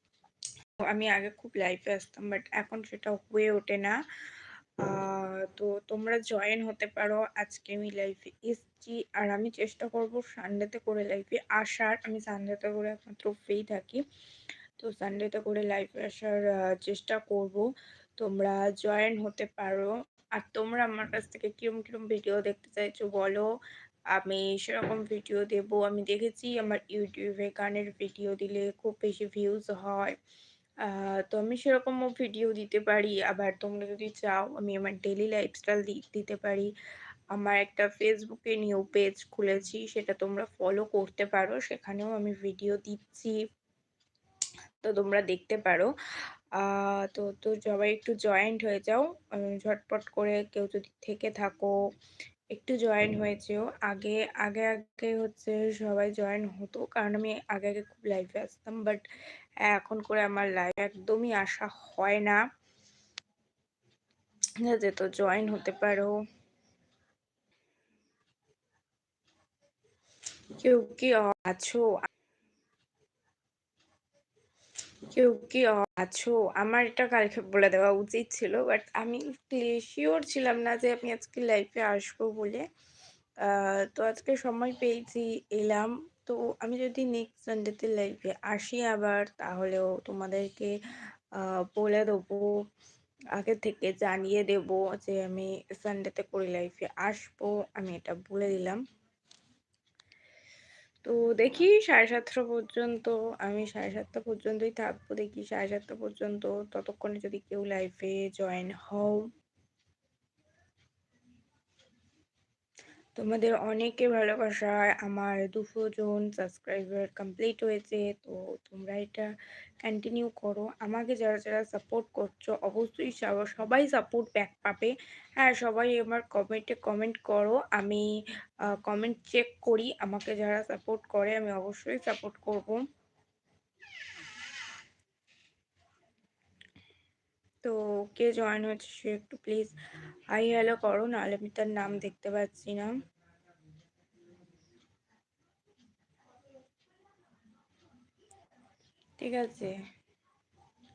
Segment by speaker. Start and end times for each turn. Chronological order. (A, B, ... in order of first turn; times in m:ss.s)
0:00.8-0:04.0 A
0:04.8-0:14.0 A
0:14.8-0:23.5 A
0:24.1-0:30.2 A
0:30.8-0:36.7 A
0:37.3-0:43.4 A
0:44.8-0:45.9 A
0:46.6-0:51.8 A
0:52.5-0:59.0 A
0:59.7-1:02.4 A
1:04.6-1:06.2 A
1:10.6-1:12.0 A
1:15.1-1:22.6 A
1:23.4-1:30.8 A
1:31.4-1:32.6 A
1:33.4-1:38.8 A
1:41.0-1:49.3 A
1:53.2-2:08.1 A
2:08.7-2:12.8 A
2:17.6-2:19.8 A
2:20.3-2:23.0 A
2:29.2-2:29.8 A